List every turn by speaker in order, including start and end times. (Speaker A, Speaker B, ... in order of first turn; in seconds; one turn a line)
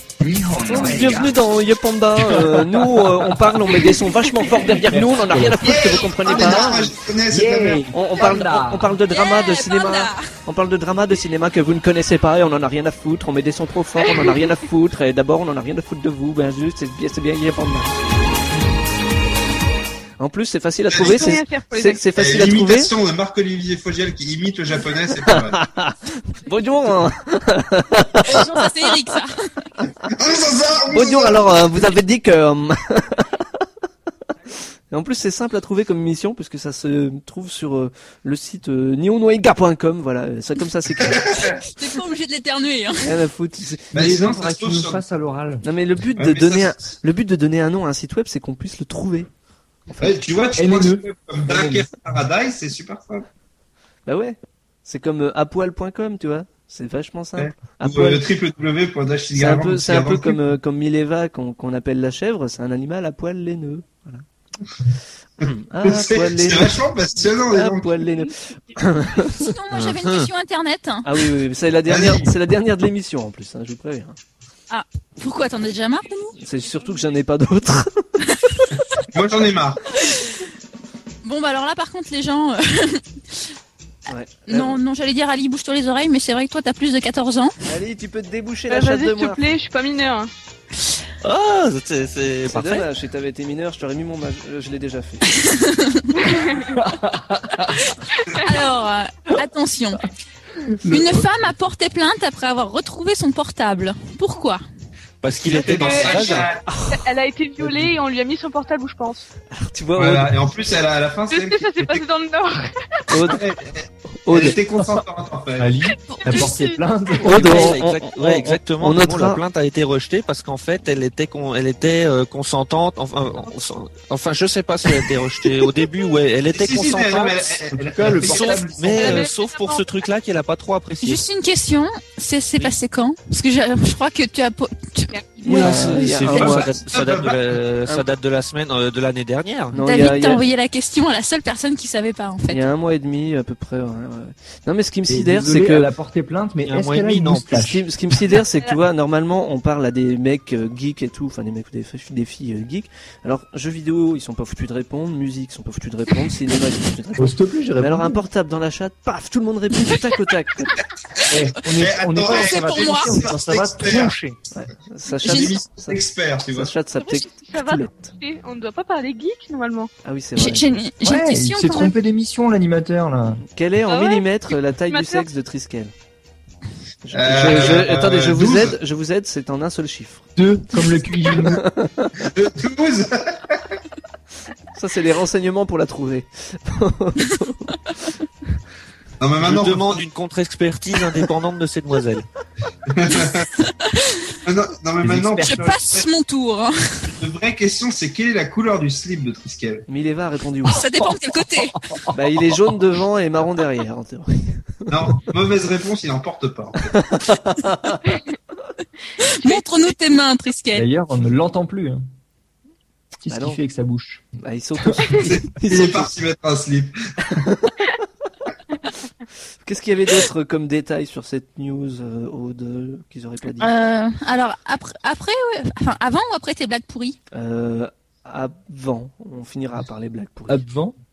Speaker A: 0.2-1.3
Speaker B: 0.6-6.9
Speaker A: 2.2-3.8
Speaker A: 4.8-5.7
Speaker C: 5.6-8.1
Speaker A: 7.3-8.9
Speaker B: 7.9-18.0
Speaker D: 9.1-10.3
Speaker B: 20.2-22.9
Speaker C: 20.9-21.4
Speaker E: 21.0-22.1
Speaker C: 22.1-25.6
Speaker B: 25.2-28.9
Speaker D: 28.2-29.5
Speaker C: 30.0-31.6
Speaker B: 30.9-33.4
Speaker B: 34.9-41.5
Speaker C: 41.0-41.6
Speaker D: 41.6-43.1
Speaker B: 43.0-44.2
Speaker C: 43.9-45.0
Speaker A: 43.9-45.6
Speaker B: 45.6-49.3
Speaker C: 46.2-46.9
Speaker B: 49.9-50.1
Speaker C: 50.0-53.2
Speaker A: 50.6-51.8
Speaker B: 54.0-58.2
Speaker C: 57.4-60.4
Speaker B: 59.4-64.2
Speaker C: 65.4-68.1
Speaker B: 65.5-69.5
Speaker D: 69.3-71.1
Speaker F: 69.7-70.3
Speaker B: 71.0-74.2
Speaker C: 71.9-72.3
Speaker D: 74.7-76.3
Speaker B: 76.4-78.3
Speaker C: 79.0-79.8
Speaker D: 80.0-80.4
Speaker D: 81.2-83.4
Speaker B: 84.1-84.8
Speaker D: 84.5-87.5
Speaker B: 87.7-89.4
Speaker E: 88.7-90.3
Speaker F: 91.2-92.8
Speaker B: 92.5-95.2
Speaker D: 95.3-96.3
Speaker E: 96.2-96.7
Speaker A: 96.6-97.8
Speaker D: 97.9-100.1
Speaker A: 100.8-101.2
Speaker D: 100.8-104.6
Speaker F: 105.2-106.5
Speaker C: 105.4-106.6
Speaker E: 105.7-106.3
Speaker B: 106.7-107.0
Speaker E: 106.9-109.2
Speaker B: 109.5-110.4
Speaker C: 110.0-112.0
Speaker E: 111.3-113.0
Speaker B: 113.1-113.4
Speaker C: 113.2-115.7
Speaker B: 114.1-114.6
Speaker A: 115.6-117.8
Speaker D: 116.1-116.6
Speaker E: 116.2-116.7
Speaker B: 117.2-119.4
Speaker F: 117.3-127.4
Speaker C: 126.5-129.2
Speaker A: 127.7-129.0
Speaker F: 128.0-131.2
Speaker E: 128.9-129.8
Speaker D: 131.0-135.3
Speaker E: 135.1-135.6
Speaker F: 135.4-139.8
Speaker B: 135.4-136.7
Speaker C: 136.3-137.6
Speaker B: 139.7-140.4
Speaker D: 139.8-142.6
Speaker B: 142.5-145.9
Speaker A: 145.1-147.8
Speaker F: 146.6-147.7
Speaker B: 147.5-160.8
Speaker A: 157.2-158.2
Speaker A: 161.3-164.4
Speaker C: 161.7-164.1
Speaker D: 162.2-163.3
Speaker B: 164.5-168.1
Speaker C: 165.2-166.8
Speaker D: 165.2-165.6
Speaker E: 167.0-169.9
Speaker B: 170.0-170.7
Speaker D: 170.4-171.9
Speaker A: 171.0-173.4
Speaker B: 173.5-175.9
Speaker E: 173.9-174.3
Speaker E: 174.9-175.3
Speaker B: 177.0-180.3
Speaker C: 177.1-178.8
Speaker A: 180.3-181.6
Speaker B: 181.3-182.2
Speaker C: 182.2-183.8
Speaker B: 184.7-188.1
Speaker C: 189.2-190.1
Speaker F: 189.4-192.2
Speaker C: 192.9-193.5
Speaker C: 194.4-196.1
Speaker A: 195.0-195.4
Speaker D: 195.4-197.1
Speaker C: 197.1-199.8
Speaker B: 199.9-200.9
Speaker D: 200.7-201.8
Speaker B: 202.1-204.9
Speaker C: 204.9-207.1
Speaker B: 206.9-208.1
Speaker D: 209.2-210.9
Speaker A: 210.7-212.1
Speaker A: 213.2-214.2
Speaker B: 213.3-213.6
Speaker B: 214.4-216.1
Speaker C: 215.1-217.4
Speaker B: 217.3-217.9
Speaker B: 219.6-223.7
Speaker D: 223.6-227.2
Speaker B: 227.3-230.6
Speaker A: 230.5-230.9